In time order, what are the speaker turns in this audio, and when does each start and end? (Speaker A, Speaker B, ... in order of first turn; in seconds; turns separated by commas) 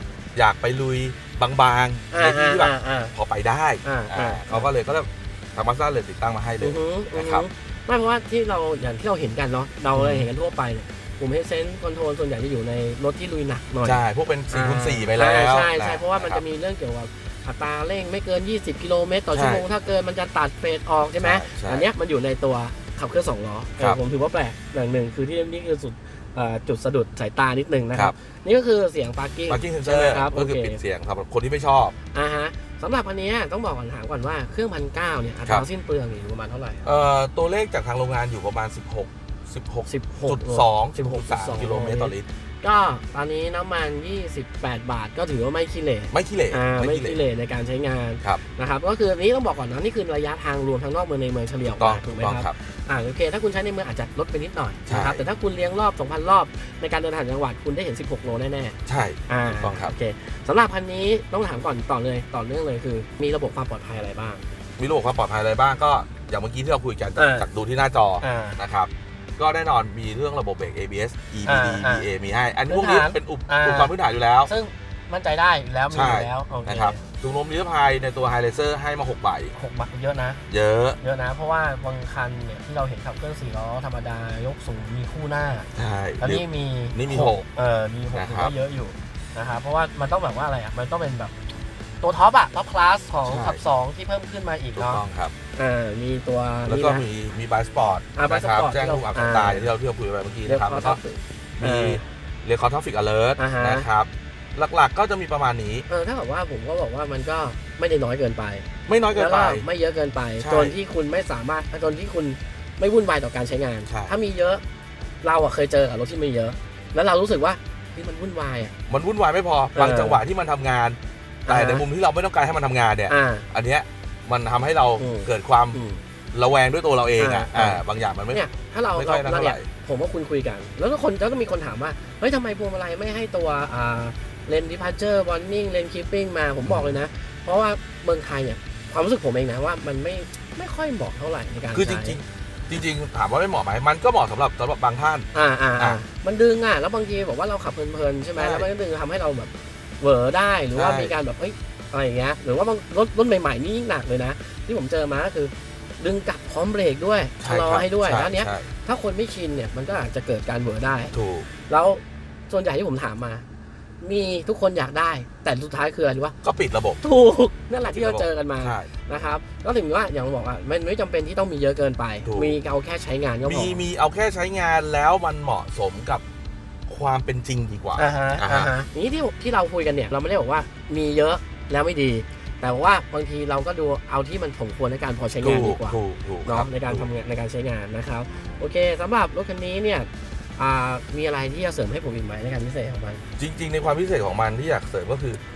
Speaker A: 0.3-7.4, Speaker B: 2.1-3.1, Speaker B: 3.8-4.7, Speaker B: 6.6-30.8, Speaker A: 9.9-10.3, Speaker A: 13.8-16.4, Speaker A: 19.3-19.6, Speaker A: 21.2-21.9, Speaker A: 29.5-31.9, Speaker B: 32.1-36.9, Speaker A: 36.8-42.2, Speaker B: 39.9-58.8, Speaker A: 46.1-47.2, Speaker A: 51.7-52.5, Speaker A: 54.9-55.2, Speaker A: 58.9-59.9, Speaker B: 59.3-64.4, Speaker A: 64.8-74.5, Speaker B: 67.2-67.5, Speaker B: 68.2-68.6, Speaker B: 71.5-72.0, Speaker B: 72.7-73.9, Speaker B: 74.5-77.0, Speaker A: 75.9-79.5, Speaker B: 79.5-80.4, Speaker A: 80.5-81.0, Speaker B: 81.0-85.7, Speaker A: 85.7-87.5, Speaker B: 86.2-91.3, Speaker A: 88.1-88.5, Speaker B: 92.0-95.0, Speaker A: 93.2-93.6, Speaker A: 94.7-95.3, Speaker B: 95.5-97.0, Speaker A: 96.7-101.0, Speaker B: 98.1-99.7, Speaker B: 100.5-102.0, Speaker A: 101.6-105.8, Speaker B: 103.4-103.9, Speaker B: 105.9-114.6, Speaker A: 108.9-109.6, Speaker A: 110.4-110.7, Speaker A: 113.8-114.1, Speaker B: 115.2-118.7, Speaker A: 118.9-125.8, Speaker B: 119.7-120.2, Speaker B: 121.5-121.8, Speaker B: 123.1-123.5, Speaker B: 125.0-126.0, Speaker A: 126.3-129.7, Speaker B: 127.2-142.2, Speaker A: 136.7-136.9, Speaker A: 141.7-146.0, Speaker B: 145.3-161.1, Speaker A: 148.4-148.7, Speaker A: 150.7-151.1, Speaker A: 157.4-158.7, Speaker A: 161.1-161.5, Speaker B: 161.7-163.4, Speaker B: 164.0-166.3, Speaker A: 166.4-167.0, Speaker B: 167.0-173.8, Speaker A: 167.9-168.9, Speaker A: 172.2-172.6, Speaker A: 173.4-176.2, Speaker A: 176.9-178.7, Speaker B: 177.9-193.2, Speaker A: 185.4-187.1, Speaker A: 193.4-195.4